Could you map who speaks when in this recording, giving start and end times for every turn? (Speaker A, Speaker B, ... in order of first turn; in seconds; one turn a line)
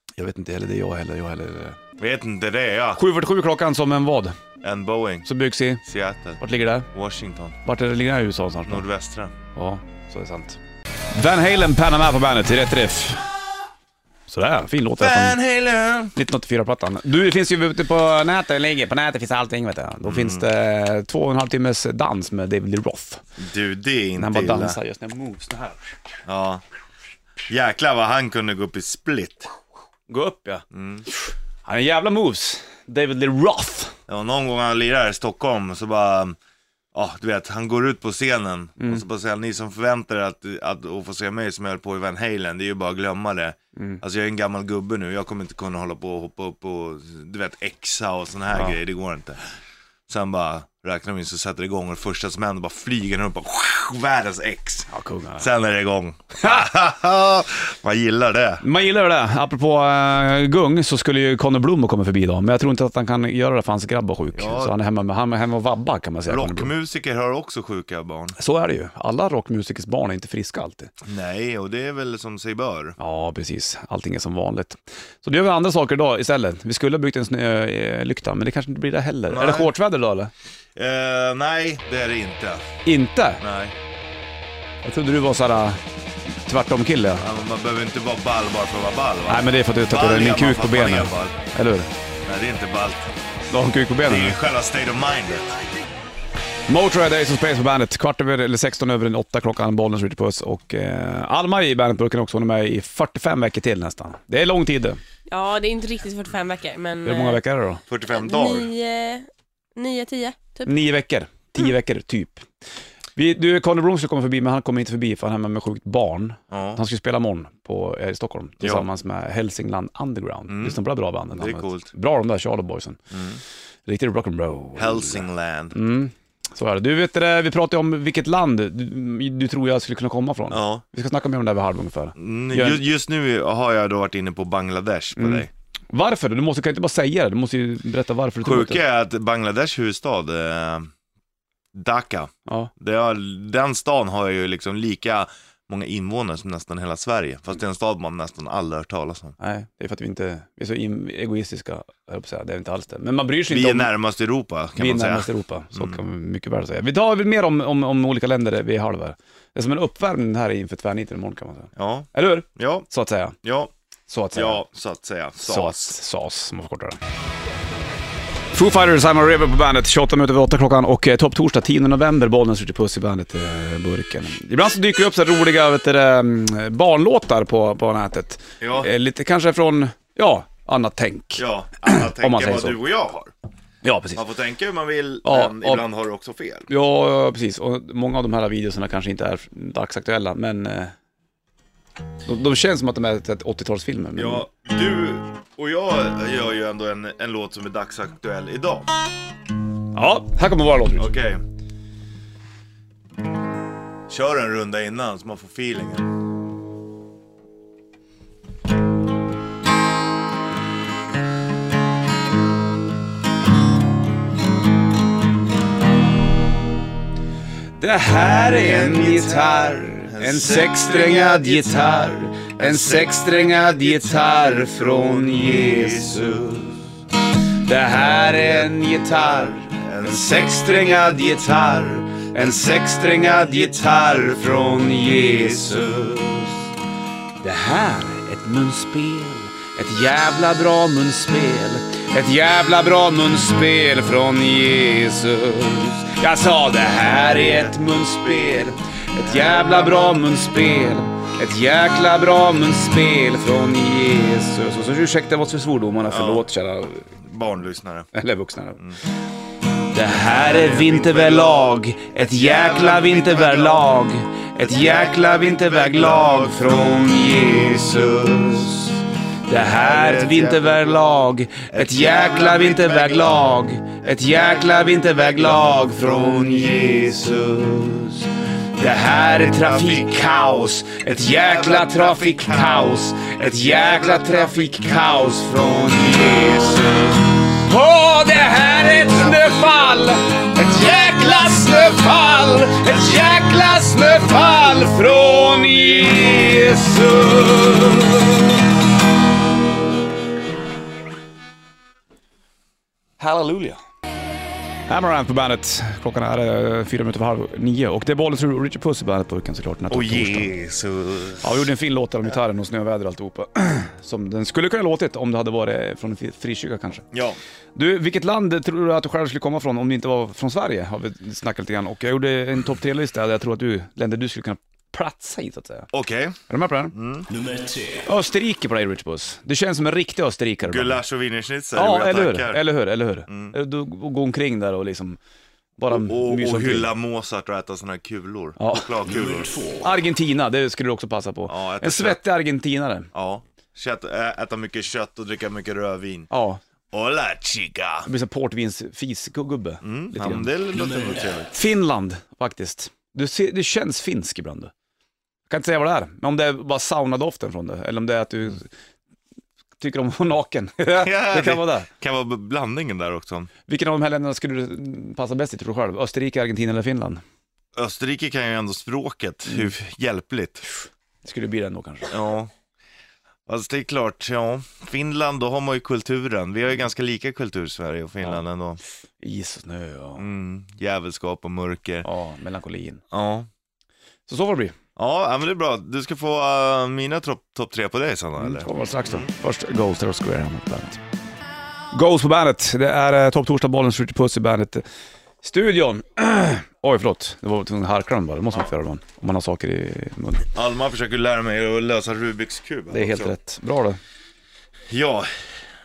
Speaker A: 0.2-1.8
Speaker B: 2.0-3.0
Speaker A: 3.0-4.3
Speaker B: 4.6-5.3
Speaker A: 5.2-5.8
Speaker B: 5.8-7.6
Speaker A: 6.4-6.9
Speaker A: 7.6-8.8
Speaker B: 8.7-9.3
Speaker A: 9.5-10.6
Speaker A: 11.1-13.2
Speaker A: 14.3-15.4
Speaker B: 15.0-16.1
Speaker A: 16.1-23.2
Speaker B: 20.0-20.5
Speaker B: 23.4-24.8
Speaker A: 24.2-26.0
Speaker B: 26.2-26.6
Speaker B: 27.5-29.5
Speaker A: 30.1-34.0
Speaker B: 30.7-31.1
Speaker B: 34.1-36.4
Speaker B: 36.9-49.4
Speaker A: 38.8-39.0
Speaker A: 43.8-44.0
Speaker B: 50.1-58.6
Speaker A: 54.9-55.5
Speaker A: 58.6-66.7
Speaker B: 64.3-64.8
Speaker B: 66.3-68.3
Speaker A: 68.4-70.9
Speaker B: 71.0-73.0
Speaker A: 73.0-80.3
Speaker B: 79.3-79.7
Speaker B: 80.7-82.6
Speaker A: 82.8-83.4
Speaker B: 83.4-83.7
Speaker A: 84.8-87.2
Speaker B: 87.2-91.3
Speaker A: 89.3-91.9
Speaker B: 92.2-93.1
Speaker A: 93.5-94.4
Speaker B: 94.0-95.5
Speaker A: 96.7-105.0
Speaker C: 105.3-107.4
Speaker A: 107.0-107.8
Speaker B: 107.9-108.7
Speaker C: 108.1-110.7
Speaker A: 110.7-112.5
Speaker A: 113.2-123.0
Speaker B: 116.5-116.8
Speaker B: 118.6-118.8
Speaker B: 120.5-120.8
Speaker B: 121.3-121.9
Speaker B: 123.1-123.4
Speaker A: 123.9-132.8
Speaker B: 124.8-125.8
Speaker B: 130.5-130.8
Speaker B: 132.2-135.5
Speaker A: 135.2-138.8
Speaker B: 138.4-140.9
Speaker B: 141.7-149.3
Speaker A: 149.4-153.9
Speaker B: 153.5-156.0
Speaker A: 154.8-163.3
Speaker B: 161.8-162.9
Speaker B: 163.4-163.7
Speaker A: 164.1-164.6
Speaker B: 164.3-165.9
Speaker A: 165.4-167.0
Speaker A: 168.5-182.8
Speaker B: 178.6-178.9
Speaker B: 181.4-183.3
Speaker A: 183.8-184.2
Speaker B: 184.1-186.7
Speaker A: 185.2-185.8
Speaker A: 186.7-190.9
Speaker A: 192.2-194.5
Speaker B: 194.2-198.9
Speaker A: 199.9-201.1
Speaker B: 200.9-201.4
Speaker B: 204.1-206.1
Speaker A: 217.8-226.7
Speaker B: 218.2-226.7
Speaker A: 227.5-236.7
Speaker B: 228.1-228.7
Speaker B: 229.7-230.5
Speaker A: 237.4-257.1
Speaker B: 246.8-250.2
Speaker B: 256.0-256.5
Speaker B: 257.1-258.1
Speaker A: 258.1-258.8
Speaker A: 259.9-268.9
Speaker B: 260.1-263.9
Speaker B: 264.6-268.9
Speaker A: 269.5-278.2
Speaker B: 269.5-271.0
Speaker B: 271.7-273.5
Speaker B: 274.1-277.1
Speaker A: 278.8-286.9
Speaker B: 279.1-284.7
Speaker B: 286.2-287.2
Speaker A: 287.5-298.4
Speaker B: 288.6-289.7
Speaker B: 292.8-293.4
Speaker A: 303.2-303.8
Speaker A: 304.9-310.5
Speaker B: 309.9-311.7
Speaker A: 311.4-317.1
Speaker B: 317.1-317.4
Speaker A: 317.8-325.9
Speaker B: 325.9-326.4
Speaker A: 326.5-326.9
Speaker B: 326.9-327.3
Speaker D: 327.3-328.1
Speaker A: 328.0-331.0
Speaker B: 330.6-332.6
Speaker A: 331.7-335.2
Speaker B: 333.3-333.6
Speaker A: 335.8-336.9
Speaker B: 335.9-339.5
Speaker A: 338.6-338.9
Speaker D: 339.0-339.9
Speaker A: 339.8-343.1
Speaker B: 341.5-342.2
Speaker B: 343.1-346.3
Speaker A: 346.3-346.6
Speaker B: 346.9-348.1
Speaker A: 348.1-350.5
Speaker B: 349.8-351.5
Speaker D: 350.7-351.4
Speaker A: 351.5-354.7
Speaker A: 355.5-358.7
Speaker A: 359.8-361.9
Speaker B: 361.0-363.5
Speaker A: 363.7-367.2
Speaker B: 367.7-370.7
Speaker A: 371.2-372.1
Speaker B: 372.1-372.5
Speaker B: 373.5-378.8
Speaker A: 379.2-380.3
Speaker B: 380.2-382.1
Speaker A: 382.0-383.0
Speaker B: 383.1-383.5
Speaker A: 384.3-384.7
Speaker B: 384.9-389.3
Speaker A: 388.4-391.0
Speaker A: 391.9-394.8
Speaker A: 395.4-400.5
Speaker B: 400.5-403.4
Speaker A: 402.9-404.0
Speaker B: 404.9-405.5